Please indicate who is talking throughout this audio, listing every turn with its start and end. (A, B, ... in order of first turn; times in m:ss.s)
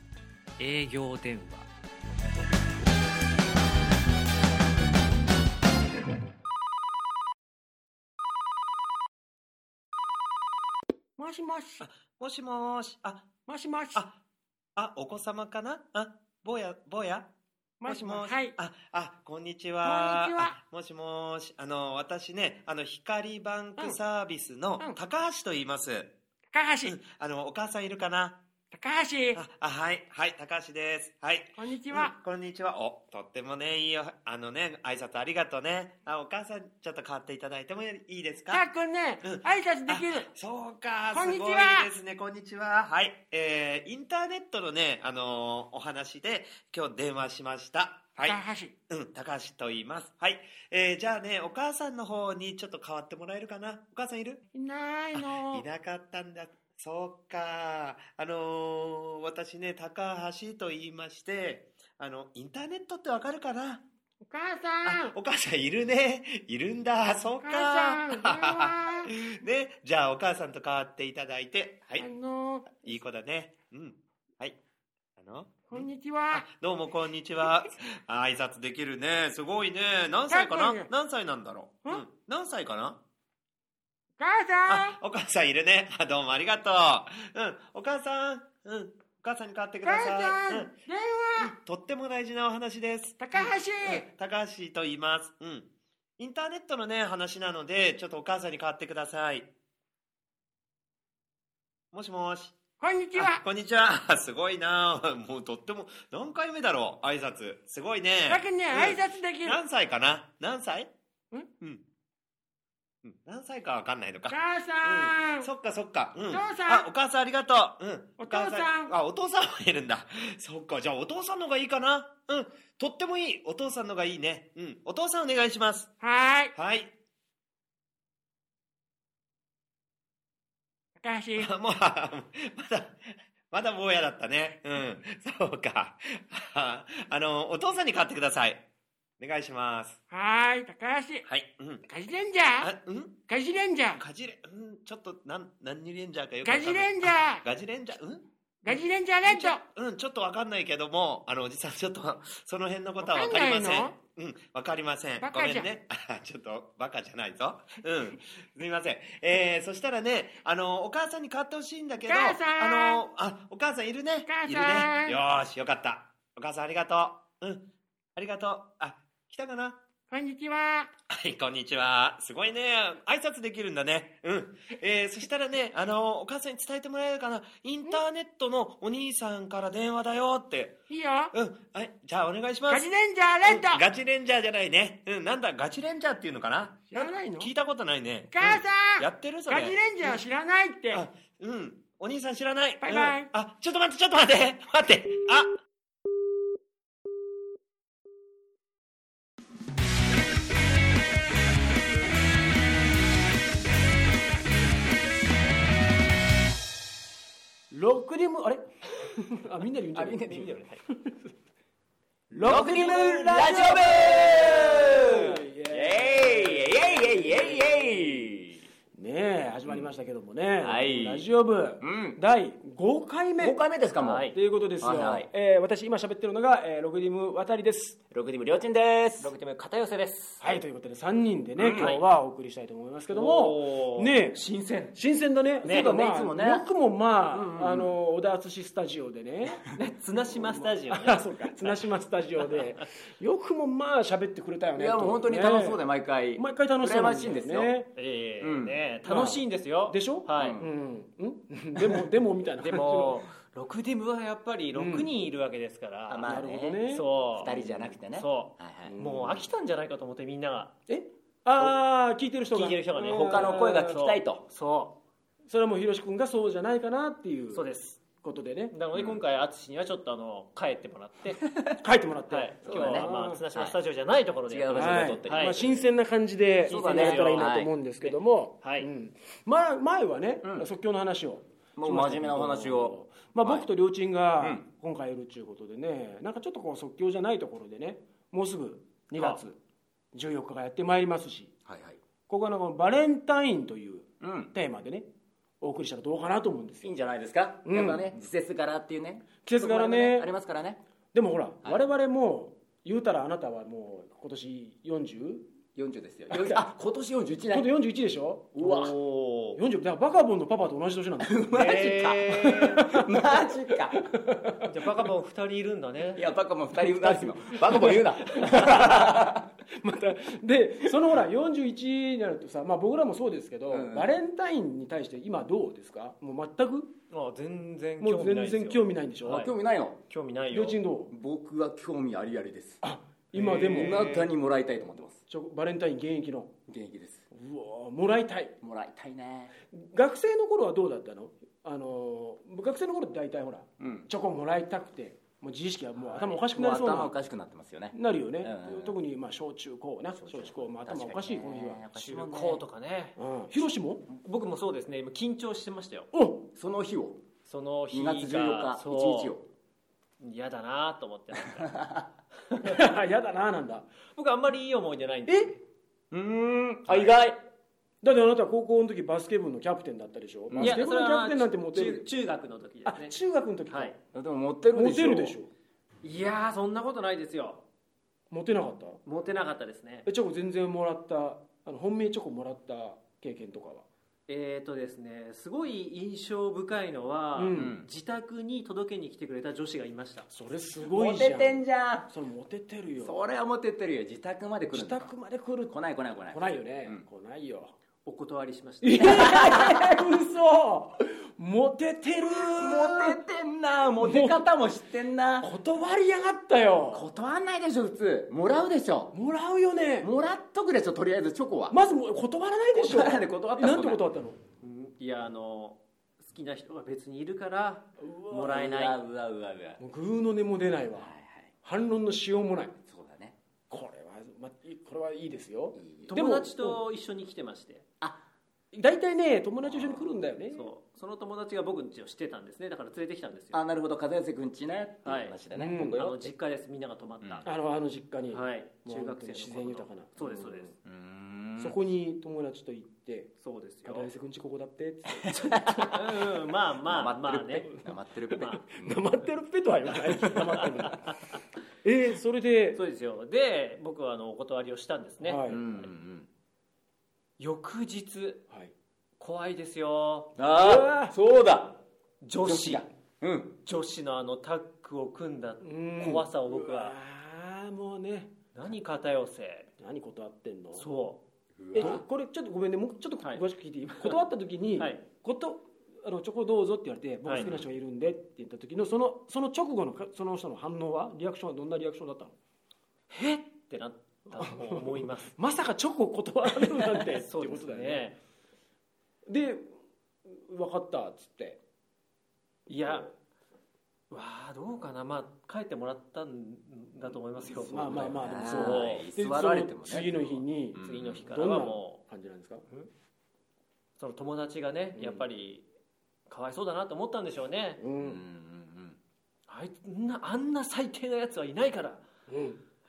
0:00.6-0:01.7 A
0:11.2-0:11.8 B
0:11.8-0:13.3 C
0:13.5-0:14.0 B
0:14.8-0:17.3 C
0:17.8-0:18.5 B
0:17.8-0:26.1 C
0:19.8-0:20.5 B
0:26.5-0:26.9 B
0:26.8-0:28.4 C
0:28.7-0:29.4 B
0:29.3-0:38.6 C
0:31.6-0:32.1 B
0:38.5-0:40.3 B
0:39.2-0:54.4 C
0:41.1-0:41.9 B
0:48.2-0:48.7 B
0:54.5-0:55.6 B
0:55.1-1:03.8 C
1:04.3-1:05.1 B
1:04.8-1:12.1 C
1:07.4-1:09.1 B
1:12.0-1:12.8 B
1:12.8-1:14.6 C
1:15.2-1:23.0 C
1:15.6-1:16.4 B
1:20.3-1:20.9 B
1:24.2-1:25.0 B
1:24.7-1:30.7 C
1:29.8-1:31.5 B
1:31.4-1:39.5 C
1:33.2-1:34.0 B
1:41.9-1:42.6 C
1:42.8-1:43.4 B
1:43.1-1:50.9 C
1:48.3-1:49.6 B
1:53.0-2:05.9 C
1:54.3-1:55.5 B
1:56.3-1:56.9 B
1:58.2-1:58.9 B
2:06.0-2:06.5 B
2:06.5-2:06.9 C
2:11.0-2:11.5 B
2:11.4-2:13.0 C
2:13.5-2:18.6 C
2:19.2-2:20.0 C
2:20.1-2:21.2 B
2:21.2-2:21.8 C
2:21.9-2:22.7 B
2:22.6-2:23.2 C
2:23.3-2:24.0 B
2:24.0-2:47.6 C
2:26.4-2:27.4 B
2:28.6-2:29.6 B
2:33.0-2:33.9 B
2:35.2-2:35.7 B
2:42.0-2:43.0 B
2:44.2-2:45.2 B
2:48.2-2:49.8 C
2:50.1-2:50.9 B
2:51.1-3:00.8 C
3:00.9-3:01.3 B
3:01.3-3:02.9 C
3:02.7-3:03.8 B
3:03.4-3:10.2 C
3:06.9-3:07.5 D
3:06.9-3:07.4 B
3:08.3-3:11.0 B
3:10.9-3:15.5 C
3:12.8-3:13.3 B
3:27.7-3:31.3 D
3:29.9-3:30.6 E
3:32.3-3:38.2 D
3:32.4-3:38.6 E
3:38.9-3:43.6 D
3:40.6-3:41.3 E
3:41.8-3:42.2 E
3:43.4-3:45.3 E
3:44.0-3:44.4 A
3:44.3-3:48.0 D
3:48.1-3:49.3 E
3:49.2-3:50.6 A
3:50.4-3:54.4 D
3:51.6-3:51.9 E
3:51.7-3:52.1 A
3:53.1-3:54.9 A
3:54.9-3:59.6 D
3:55.6-3:56.0 A
3:55.6-3:56.6 E
3:57.3-3:57.9 E
3:59.7-4:01.8 A
4:00.3-4:07.9 D
4:04.8-4:07.7 E
4:07.9-4:10.6 A
4:08.4-4:08.8 E
4:09.0-4:13.2 D
4:10.4-4:10.6 E
4:12.6-4:17.6 A
4:14.7-4:15.1 D
4:16.1-4:16.8 E
4:16.2-4:18.0 D
4:17.4-4:19.0 E
4:18.1-4:20.7 A
4:18.9-4:19.5 D
4:20.9-4:24.0 D
4:22.5-4:25.0 A
4:23.0-4:24.4 E
4:25.5-4:27.6 D
4:27.5-4:28.0 A
4:28.2-4:28.7 D
4:28.7-4:31.4 A
4:28.9-4:29.2 E
4:31.8-4:33.4 D
4:32.3-4:35.6 A
4:32.6-4:33.8 E
4:34.5-4:35.8 E
4:34.7-4:49.6 D
4:36.6-4:38.9 A
4:36.7-4:37.7 E
4:41.8-4:43.7 E
4:50.1-4:51.5 D
4:51.6-4:52.0 E
4:52.3-4:55.1 D
4:54.2-4:54.5 E
4:55.6-4:56.9 D
4:56.8-5:00.8 E
4:57.6-4:58.2 D
4:59.4-5:00.3 D
5:01.1-5:05.5 D
5:05.7-5:07.7 E
5:06.3-5:06.7 D
5:07.5-5:08.6 D
5:08.5-5:09.0 E
5:08.6-5:09.6 A
5:09.6-5:11.5 D
5:11.2-5:14.0 E
5:11.5-5:12.8 A
5:12.4-5:14.6 D
5:14.6-5:16.2 A
5:16.1-5:19.4 E
5:16.8-5:26.9 D
5:23.7-5:24.1 E
5:27.1-5:29.5 A
5:28.0-5:29.5 D
5:29.2-5:30.0 E
5:30.1-5:30.8 A
5:30.5-5:31.1 D
5:31.1-5:32.8 E
5:32.8-5:34.3 D
5:33.3-5:35.2 E
5:33.4-5:34.3 A
5:35.2-5:36.5 D
5:36.7-5:37.2 E
5:37.3-5:38.6 D
5:38.6-5:39.5 E
5:39.7-5:47.2 D
5:43.8-5:44.1 E
5:46.0-5:49.0 E
5:47.9-5:51.8 D
5:50.2-5:52.6 E
5:51.9-5:53.2 A
5:53.2-5:54.0 D
5:54.1-5:56.1 A
5:56.1-5:56.5 D
5:56.5-5:57.2 E
5:57.4-5:59.4 A
5:57.9-5:59.4 E
6:00.2-6:01.8 A
6:02.6-6:03.9 D
6:04.1-6:05.6 A
6:05.3-6:05.5 D
6:06.1-6:07.4 E
6:06.9-6:07.1 A
6:08.0-6:12.1 D
6:10.5-6:10.8 E
6:10.6-6:13.1 A
6:12.8-6:14.0 D
6:13.7-6:13.9 A
6:14.1-6:15.4 E
6:14.7-6:15.5 D
6:16.0-6:17.6 A
6:18.3-6:19.0 D
6:19.0-6:20.0 A
6:20.0-6:23.8 D
6:24.3-6:30.3 A
6:27.4-6:27.7 D
6:27.5-6:27.9 E
6:30.3-6:33.2 D
6:30.8-6:32.1 E
6:33.0-6:35.1 E
6:34.7-6:35.8 D
6:35.7-6:37.0 E
6:36.3-6:37.7 D
6:38.0-6:39.3 A
6:38.8-6:43.2 D
6:39.0-6:40.0 E
6:42.3-6:45.5 E
6:44.0-6:44.5 D
6:45.4-6:47.1 D
6:46.9-6:49.1 E
6:49.1-6:50.1 D
6:50.0-6:51.7 E
6:51.7-6:54.4 D
6:52.7-6:54.0 E
6:54.6-6:59.0 A
6:58.0-6:58.5 D
6:58.3-6:59.8 E
6:59.8-7:01.1 D
7:00.9-7:01.5 E
7:01.6-7:02.7 D
7:02.8-7:03.4 E
7:03.7-7:06.8 D
7:05.8-7:06.1 E
7:06.1-7:07.8 A
7:08.7-7:10.7 D
7:09.6-7:10.1 E
7:10.5-7:13.6 A
7:13.5-7:16.3 E
7:15.0-7:17.5 A
7:15.5-7:16.0 D
7:17.2-7:17.5 E
7:17.4-7:20.7 D
7:18.3-7:20.7 A
7:20.8-7:21.8 E
7:21.6-7:23.3 D
7:23.4-7:24.1 A
7:23.8-7:25.6 D
7:25.2-7:26.3 E
7:25.3-7:27.7 A
7:26.8-7:29.1 E
7:28.3-7:28.6 A
7:28.5-7:31.1 D
7:31.8-7:32.8 D
7:32.7-7:35.4 A
7:35.2-7:35.6 D
7:35.5-7:36.3 E
7:37.4-7:38.4 A
7:39.2-7:40.3 A
7:40.4-7:41.8 E
7:40.5-7:41.1 D
7:42.2-7:42.9 A
7:42.4-7:43.5 E
7:43.6-7:46.9 A
7:45.6-7:48.3 D
7:48.5-7:49.7 A
7:49.8-7:50.8 D
7:50.8-7:51.2 A
7:51.6-7:52.0 E
7:51.7-8:02.3 D
7:51.8-7:52.0 A
7:57.2-7:57.6 A
7:57.4-7:57.6 E
8:03.1-8:05.3 A
8:04.3-8:08.1 D
8:06.8-8:08.2 A
8:09.3-8:09.7 D
8:10.3-8:11.6 D
8:12.7-8:13.1 D
8:12.7-8:13.1 A
8:14.1-8:19.1 A
8:17.4-8:22.9 D
8:17.7-8:21.2 E
8:20.8-8:22.0 A
8:24.0-8:25.6 A
8:24.9-8:25.3 D
8:26.3-8:27.8 A
8:27.8-8:28.2 D
8:28.0-8:29.0 E
8:29.5-8:32.0 A
8:32.3-8:32.6 D